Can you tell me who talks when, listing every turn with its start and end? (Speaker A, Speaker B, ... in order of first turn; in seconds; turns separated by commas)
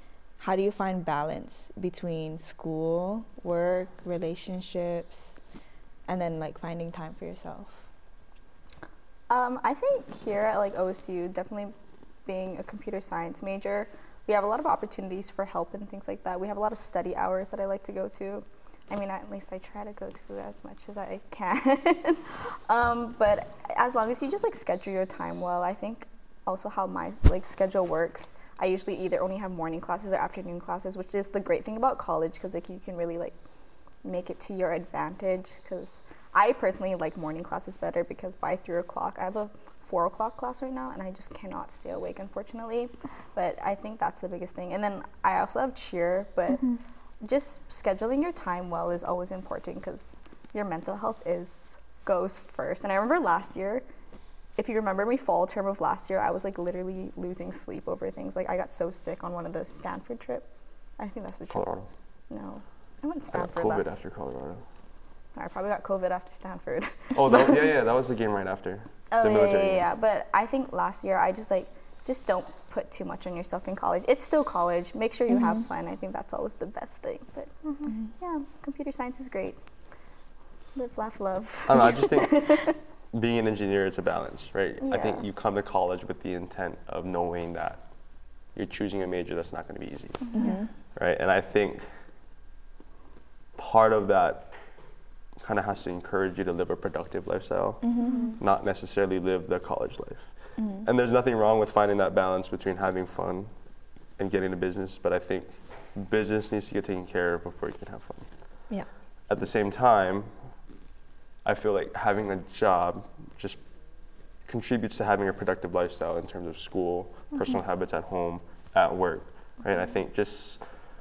Speaker A: 0.4-5.4, Speaker A: 6.1-7.9, Speaker B: 9.3-11.8, Speaker B: 12.3-33.3, Speaker B: 34.0-46.6, Speaker B: 47.2-53.9, Speaker B: 54.6-60.5, Speaker B: 61.0-61.7, Speaker C: 61.5-61.9, Speaker B: 62.3-63.9, Speaker C: 63.3-64.6, Speaker B: 65.3-67.7, Speaker C: 67.1-69.9, Speaker B: 69.1-77.5, Speaker A: 75.3-75.6, Speaker B: 78.1-79.6, Speaker B: 80.8-82.7, Speaker C: 81.7-87.8, Speaker B: 84.8-85.2, Speaker C: 88.5-90.4, Speaker B: 90.3-90.6, Speaker A: 90.3-90.7, Speaker C: 91.0-91.8, Speaker C: 93.6-94.5, Speaker C: 95.4-97.9, Speaker A: 97.8-98.3, Speaker B: 98.0-98.4, Speaker C: 98.4-103.5, Speaker A: 100.6-100.9, Speaker C: 104.2-108.3, Speaker C: 109.3-110.3, Speaker C: 111.5-113.6, Speaker C: 114.5-120.6